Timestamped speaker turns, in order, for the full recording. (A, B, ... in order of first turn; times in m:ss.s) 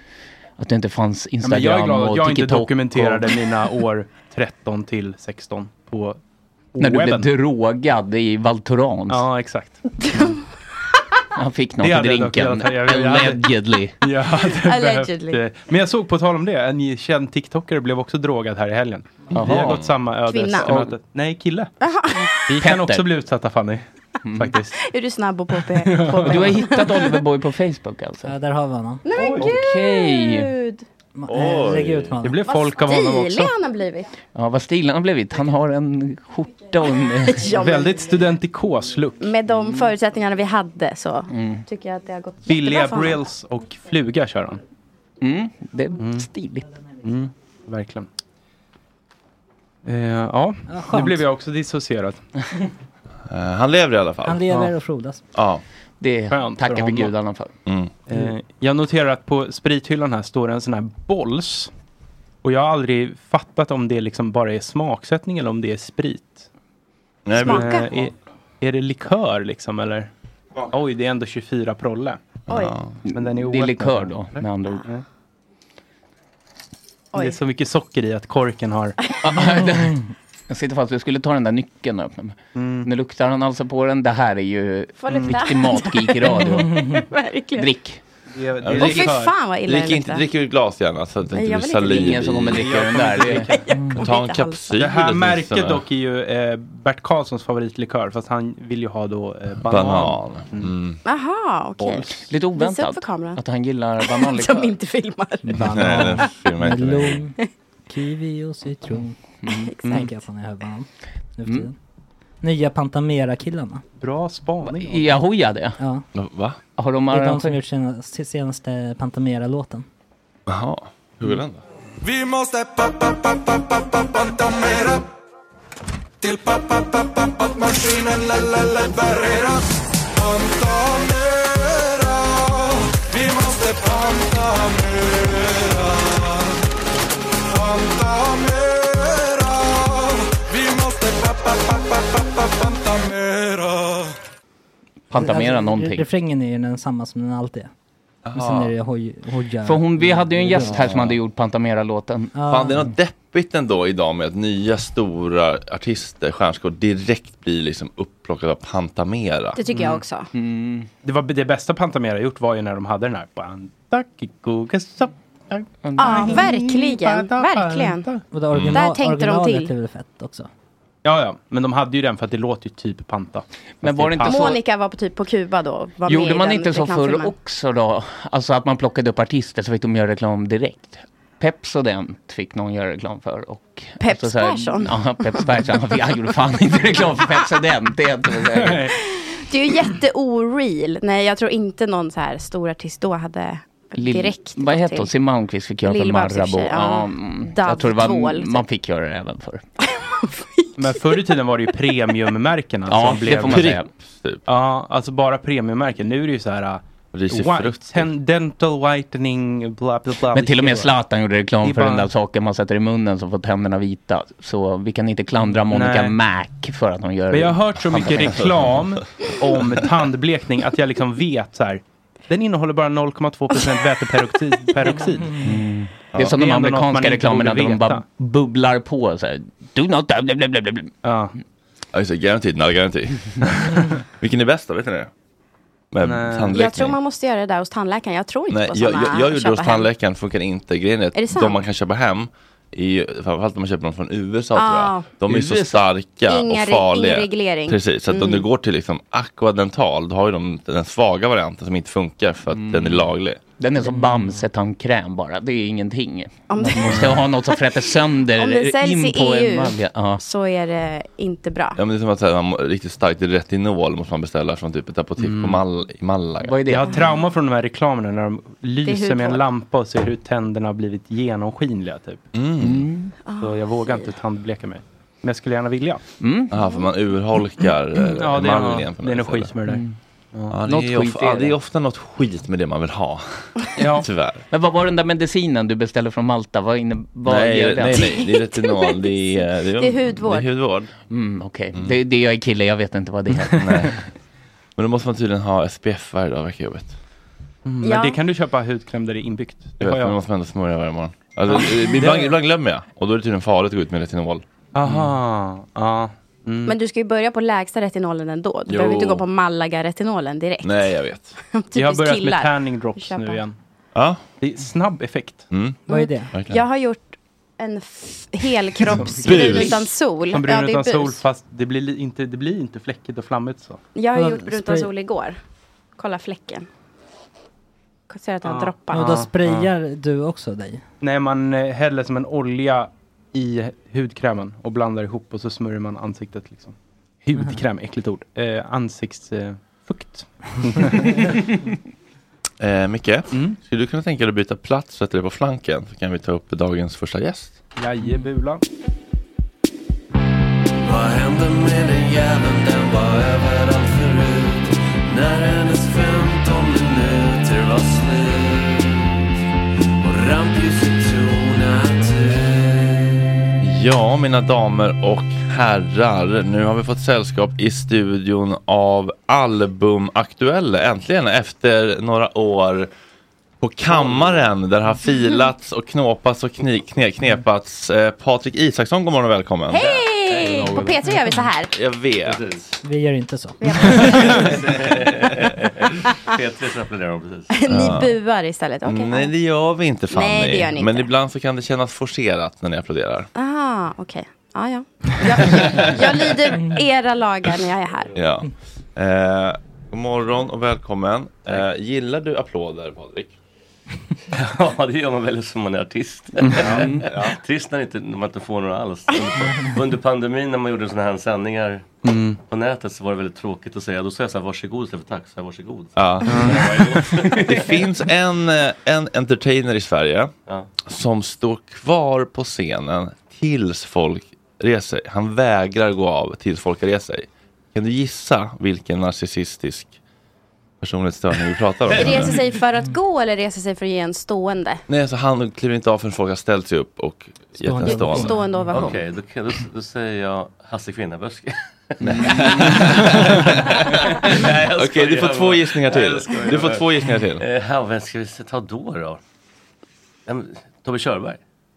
0:00.6-0:03.4 A
0:01.4-0:06.2 B
0:06.7-0:07.3 B
0:06.8-0:09.2 A
0:09.1-0:10.3 B
0:11.4-0:14.0 A
0:11.8-0:21.7 B
0:14.5-0:15.4 C
0:19.3-0:19.9 A
0:19.4-0:19.9 D
0:20.3-0:20.8 C
0:20.6-0:20.9 A
0:21.8-0:22.5 C
0:22.5-0:23.8 B
0:22.6-0:23.1 A
0:24.2-0:24.5 A
0:24.4-0:24.8 B
0:24.8-0:27.2 C
0:25.8-0:26.6 B
0:26.2-0:28.3 A
0:28.2-0:29.1 E
0:29.0-0:30.8 C
0:29.3-0:30.5 A
0:31.2-0:32.4 E
0:31.3-0:32.1 D
0:32.2-0:33.5 B
0:32.5-0:34.1 C
0:34.3-0:37.5 A
0:37.2-0:38.2 C
0:37.5-0:39.3 B
0:39.2-0:43.2 C
0:41.3-0:41.6 A
0:42.4-0:44.6 B
0:45.2-0:46.7 A
0:46.0-0:46.3 B
0:47.0-0:48.1 B
0:49.8-0:52.2 B
0:50.7-0:51.2 E
0:53.3-0:54.4 D
0:54.2-0:55.2 E
0:55.3-0:55.6 D
0:56.0-0:57.5 A
0:56.3-0:57.1 B
0:57.6-0:57.9 D
0:58.1-1:01.7 B
1:02.4-1:06.5 B
1:07.2-1:07.9 D
1:07.4-1:10.1 B
1:07.4-1:07.9 C
1:10.7-1:12.2 B
1:12.5-1:12.9 D
1:12.5-1:12.8 C
1:13.1-1:14.9 A
1:13.1-1:15.0 B
1:17.1-1:17.4 C
1:17.1-1:18.9 B
1:19.2-1:26.8 A
1:22.5-1:22.9 B
1:25.0-1:27.7 C
1:25.1-1:25.4 B
1:26.6-1:26.9 E
1:27.6-1:28.0 A
1:28.3-1:29.4 B
1:28.6-1:32.7 D
1:28.7-1:30.2 C
1:31.3-1:32.3 C
1:31.8-1:33.5 A
1:32.4-1:33.8 B
1:33.3-1:34.8 C
1:34.0-1:35.8 D
1:34.8-1:40.7 B
1:39.6-1:41.0 D
1:41.0-1:43.4 C
1:42.2-1:44.7 A
1:44.0-1:45.5 C
1:45.5-1:46.2 B
1:45.5-1:47.2 D
1:45.8-1:47.4 E
1:47.9-1:49.2 E
1:49.4-1:49.7 A
1:49.5-1:50.1 C
1:49.8-1:51.8 E
1:52.4-1:53.8 E
1:54.0-1:55.2 B
1:54.6-1:55.8 A
1:55.8-1:56.0 E
1:56.1-1:56.6 D
1:56.8-1:57.6 A
1:57.1-1:59.9 E
2:00.5-2:01.6 D
2:02.0-2:05.1 F
2:06.2-2:16.6 F
2:17.5-2:24.1 F
2:25.1-2:26.1 A
2:25.1-2:27.7 E
2:28.2-2:28.7 D
2:28.3-2:30.8 E
2:29.6-2:32.4 A
2:30.7-2:31.2 D
2:32.3-2:32.9 E
2:32.5-2:39.6 D
2:39.6-2:40.3 C
2:39.7-2:40.0 B
2:40.3-2:40.9 A
2:41.0-2:48.2 B
2:45.8-2:46.3 A
2:46.0-2:48.1 C
2:48.3-2:50.5 E
2:48.5-2:48.8 D
2:48.7-2:49.7 C
2:51.0-2:54.6 B
2:53.8-2:54.6 A
2:54.3-2:57.3 C
2:56.0-3:08.9 A
3:04.0-3:05.5 C
3:08.5-3:08.9 B
3:09.5-3:15.1 C
3:14.0-3:19.6 A
3:15.8-3:18.6 C
3:20.0-3:21.4 C
3:20.8-3:23.8 B
3:22.9-3:23.9 A
3:23.3-3:24.4 D
3:24.5-3:30.9 B
3:27.1-3:28.1 D
3:30.3-3:38.5 A
3:31.6-3:32.1 B
3:35.7-3:36.2 B
3:37.3-3:45.5 B
3:38.4-3:39.2 D
3:45.4-3:50.9 A
3:46.2-3:48.0 B
3:51.0-3:51.3 B
3:51.9-3:55.1 D
3:55.9-3:57.0 D
3:56.0-3:56.6 B
3:56.5-3:59.9 C
3:58.5-4:13.4 D
4:01.1-4:01.6 C
4:04.6-4:05.1 C
4:05.2-4:05.8 A
4:06.3-4:08.5 C
4:12.5-4:20.2 A
4:13.9-4:14.4 E
4:16.5-4:17.6 C
4:18.4-4:21.8 C
4:21.8-4:26.7 D
4:25.2-4:25.6 B
4:26.4-4:26.9 A
4:26.6-4:32.2 B
4:26.8-4:27.2 C
4:28.8-4:29.4 C
4:32.3-4:32.9 D
4:32.6-4:33.1 A
4:33.2-4:34.1 C
4:33.4-4:36.0 B
4:36.2-4:36.5 A
4:36.5-4:39.5 D
4:38.0-4:40.6 B
4:39.6-4:39.9 A
4:40.5-4:44.4 D
4:40.6-4:41.6 A
4:43.8-4:44.1 B
4:44.5-4:48.1 A
4:47.2-4:50.9 D
4:47.9-4:49.2 C
4:49.8-4:50.5 C
4:51.1-4:53.6 A
4:51.7-4:52.0 D
4:53.5-4:53.8 B
4:53.6-4:54.0 D
4:54.8-4:56.9 D
4:57.6-5:00.2 B
4:57.8-4:58.2 C
4:59.8-5:05.1 D
5:01.5-5:02.4 B
5:04.7-5:06.8 B
5:06.6-5:11.0 C
5:08.7-5:09.2 D
5:10.6-5:11.3 D
5:11.5-5:13.4 C
5:11.7-5:13.6 B
5:13.9-5:14.2 D
5:14.4-5:15.5 B
5:15.5-5:15.8 D
5:15.9-5:16.3 E
5:15.9-5:21.2 C
5:16.3-5:16.6 D
5:18.9-5:19.7 B
5:19.1-5:19.9 D
5:20.3-5:23.8 B
5:23.9-5:25.4 C
5:24.1-5:24.9 E
5:26.0-5:26.6 C
5:28.1-5:29.1 C
5:28.4-5:29.7 B
5:28.9-5:30.8 E
5:31.0-5:41.4 B
5:42.6-5:47.6 D
5:43.3-5:43.6 B
5:47.8-5:48.6 B
5:50.8-5:59.2 F
6:00.0-6:03.4 F
6:03.6-6:12.9 D
6:13.6-6:20.7 D
6:13.9-6:14.4 G
6:19.7-6:21.7 C
6:19.8-6:20.7 G
6:21.8-6:22.4 D
6:22.2-6:22.7 G
6:22.8-6:24.1 E
6:23.6-6:24.6 C
6:24.2-6:25.7 G
6:26.2-6:27.5 G
6:27.5-6:29.3 C
6:27.6-6:28.1 D
6:28.8-6:33.3 D
6:30.1-6:31.1 C
6:33.4-6:38.1 C
6:35.4-6:36.3 D
6:38.1-6:43.3 D
6:44.3-6:52.0 G
6:46.4-6:46.9 B
6:46.6-6:47.4 D
6:46.7-6:47.0 A
6:52.0-6:52.4 B
6:52.5-6:57.8 G
6:56.0-7:00.3 D
6:56.2-6:57.0 B
7:00.8-7:09.9 D
7:10.8-7:12.4 D
7:12.0-7:14.8 C
7:14.9-7:18.9 D
7:17.6-7:18.7 E
7:17.8-7:19.0 C
7:18.7-7:23.1 G
7:22.0-7:27.4 D
7:22.0-7:22.8 A
7:24.2-7:26.8 G
7:27.4-7:29.2 G
7:30.2-7:31.4 G